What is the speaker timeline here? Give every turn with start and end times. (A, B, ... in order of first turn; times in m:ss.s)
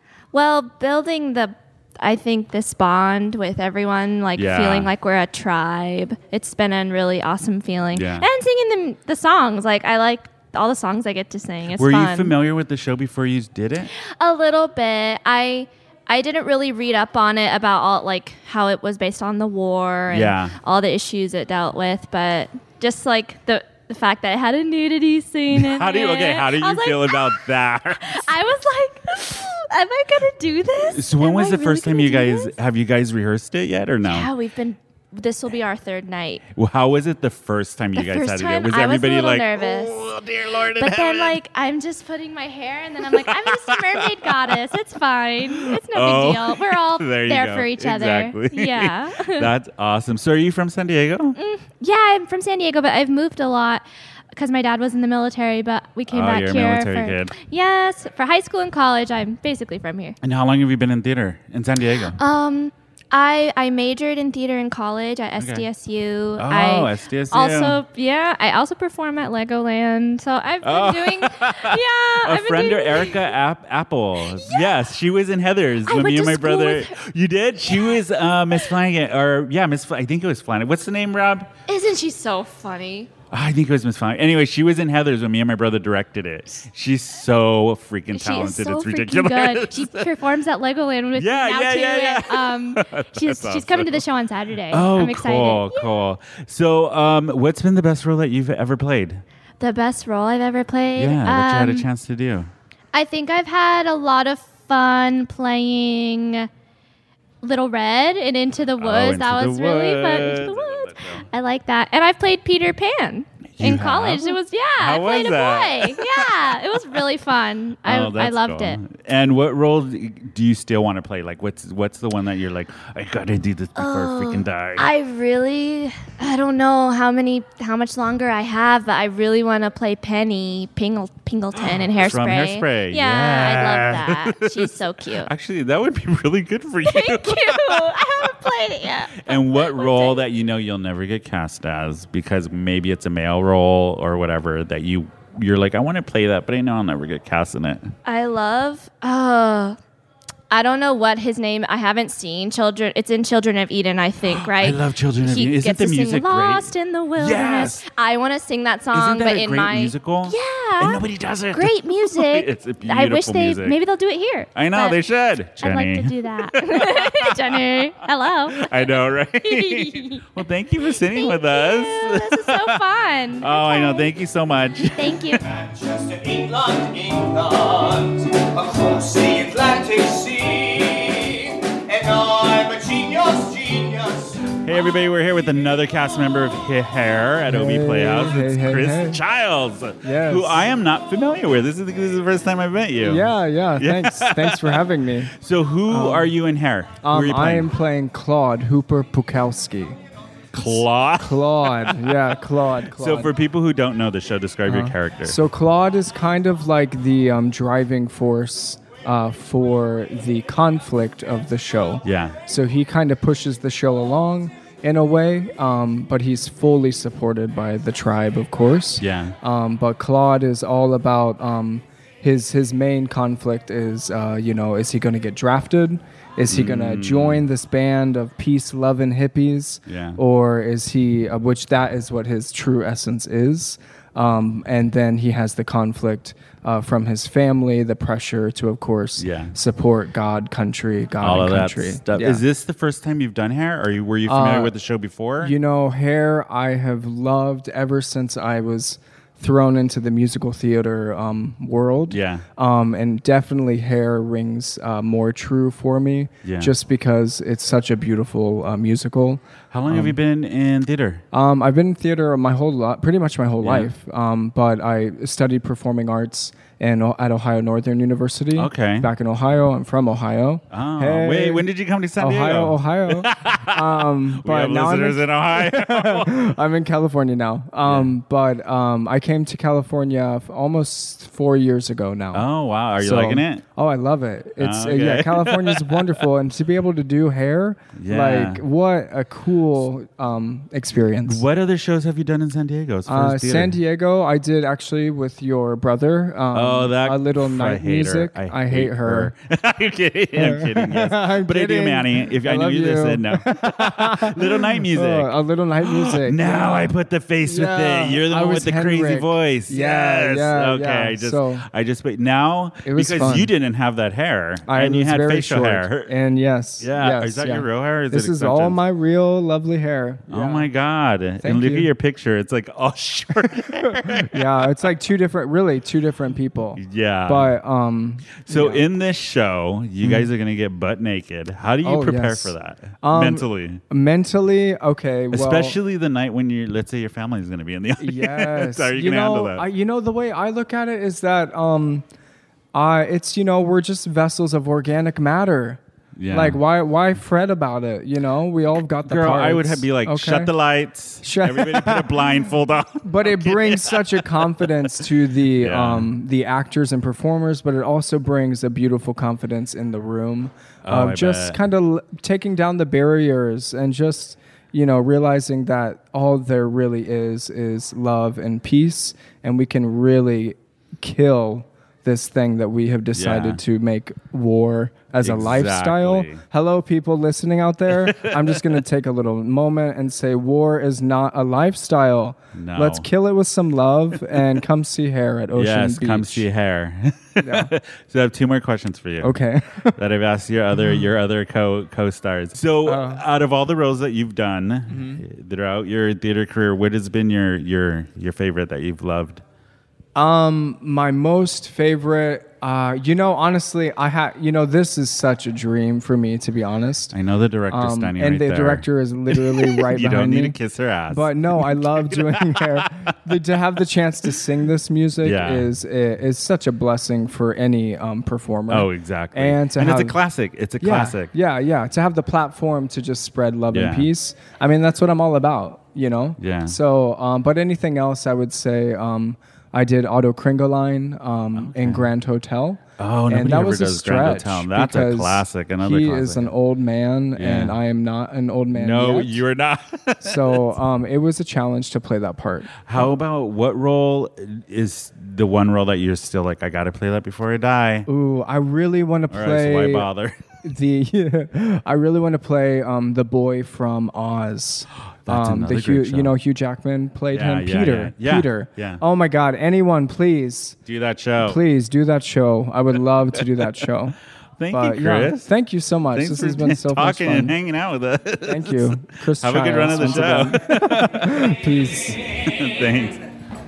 0:00.3-0:12.3 A
0:04.4-0:04.9 B
0:07.9-0:08.2 B
0:11.8-0:13.9 B
0:14.0-0:27.4 A
0:20.1-0:20.5 B
0:25.5-0:28.3 B
0:28.0-0:32.5 A
0:30.9-0:34.3 B
0:34.0-0:36.4 A
0:36.5-0:41.4 B
0:38.0-0:40.1 A
0:40.8-0:49.5 A
0:43.1-0:44.6 B
0:45.6-0:51.4 B
0:51.4-1:00.2 A
0:56.1-0:57.3 B
1:00.2-1:02.2 B
1:02.2-1:13.3 A
1:05.4-1:05.6 B
1:06.4-1:07.8 B
1:10.6-1:21.5 B
1:14.2-1:14.7 A
1:15.9-1:17.0 A
1:17.6-1:18.0 A
1:21.7-1:23.1 A
1:23.3-1:30.1 B
1:28.1-1:36.0 A
1:31.2-1:34.0 B
1:34.7-1:39.2 B
1:39.6-1:41.9 A
1:41.0-1:42.5 B
1:42.9-1:46.5 A
1:47.4-1:58.8 A
1:48.8-1:51.2 B
1:53.6-1:56.8 B
1:57.8-2:04.9 B
2:03.8-2:15.3 A
2:11.6-2:17.9 B
2:16.8-2:20.2 A
2:19.2-2:27.9 B
2:28.0-2:29.8 A
2:30.5-2:45.0 A
2:34.3-2:37.8 B
2:38.9-2:43.8 B
2:44.5-2:47.6 B
2:45.6-2:48.8 A
2:48.5-2:52.8 B
2:49.4-2:50.2 A
2:51.1-2:54.1 A
2:53.4-2:55.3 B
2:55.0-2:55.4 A
2:55.4-3:04.5 C
3:04.6-3:13.2 B
3:07.5-3:09.2 D
3:10.0-3:10.6 D
3:13.0-3:15.3 D
3:13.8-3:14.8 B
3:15.3-3:17.7 B
3:15.9-3:16.3 D
3:17.0-3:20.0 D
3:20.5-3:22.1 B
3:20.6-3:23.3 D
3:23.0-3:25.4 B
3:24.6-4:02.4 D
3:32.0-3:32.4 B
3:39.0-3:39.3 B
3:46.5-3:47.4 B
3:49.9-3:50.2 B
3:59.2-3:59.6 B
4:01.2-4:05.5 B
4:04.3-4:04.7 D
4:05.4-4:20.2 D
4:12.1-4:12.4 B
4:16.4-4:16.7 B
4:19.7-4:21.2 B
4:21.3-4:31.6 D
4:23.6-4:23.9 B
4:28.5-4:29.1 B
4:30.7-4:36.4 B
4:32.2-4:42.5 D
4:37.8-4:38.1 B
4:42.3-4:43.6 B
4:43.0-4:51.4 D
4:44.6-4:46.0 B
4:48.0-4:48.6 B
4:51.2-4:53.8 B
4:53.1-4:59.3 D
4:56.5-5:05.3 B
5:00.3-5:11.6 D
5:05.8-5:16.1 B
5:12.8-5:13.5 D
5:14.6-5:20.7 D
5:16.8-5:18.8 B
5:20.3-5:24.5 B
5:21.4-5:21.9 D
5:23.8-5:28.8 D
5:26.8-5:27.5 B
5:28.4-5:33.8 B
5:30.0-5:30.3 D
5:31.8-5:35.8 D
5:35.3-5:39.6 B
5:38.0-5:42.0 D
5:42.7-5:50.5 D
5:46.2-5:46.6 B
5:49.0-5:54.0 B
5:51.2-5:52.2 D
5:53.0-6:26.5 D
5:55.6-5:56.1 B
6:00.8-6:01.6 B
6:13.1-6:13.6 B
6:15.2-6:16.4 B
6:18.0-6:18.5 B
6:22.6-6:23.1 B
6:25.5-6:29.3 B
6:27.4-6:27.7 D
6:29.2-6:30.0 D
6:30.0-6:39.4 B
6:30.7-6:31.0 D
6:32.8-6:33.2 D
6:34.9-6:35.2 D
6:40.1-6:47.1 D
6:47.1-6:52.8 B
6:47.7-6:50.6 D
6:51.1-7:00.2 D
6:55.2-6:55.7 B
6:58.7-7:01.3 B
7:00.8-7:19.4 D
7:03.7-7:04.1 B
7:06.4-7:06.8 B
7:11.6-7:12.1 B
7:13.0-7:16.5 B
7:17.4-7:17.8 B
7:18.7-7:20.7 B
7:20.2-7:23.1 D
7:22.8-7:28.1 B
7:28.1-7:30.1 D
7:29.3-7:30.4 B
7:30.6-7:40.8 D
7:35.2-7:36.3 B
7:37.3-7:39.0 B
7:40.8-7:41.6 B
7:41.4-7:44.2 D
7:44.6-7:45.5 B
7:44.7-7:47.6 D
7:46.1-7:51.5 B
7:48.4-7:52.2 D
7:52.4-7:53.2 B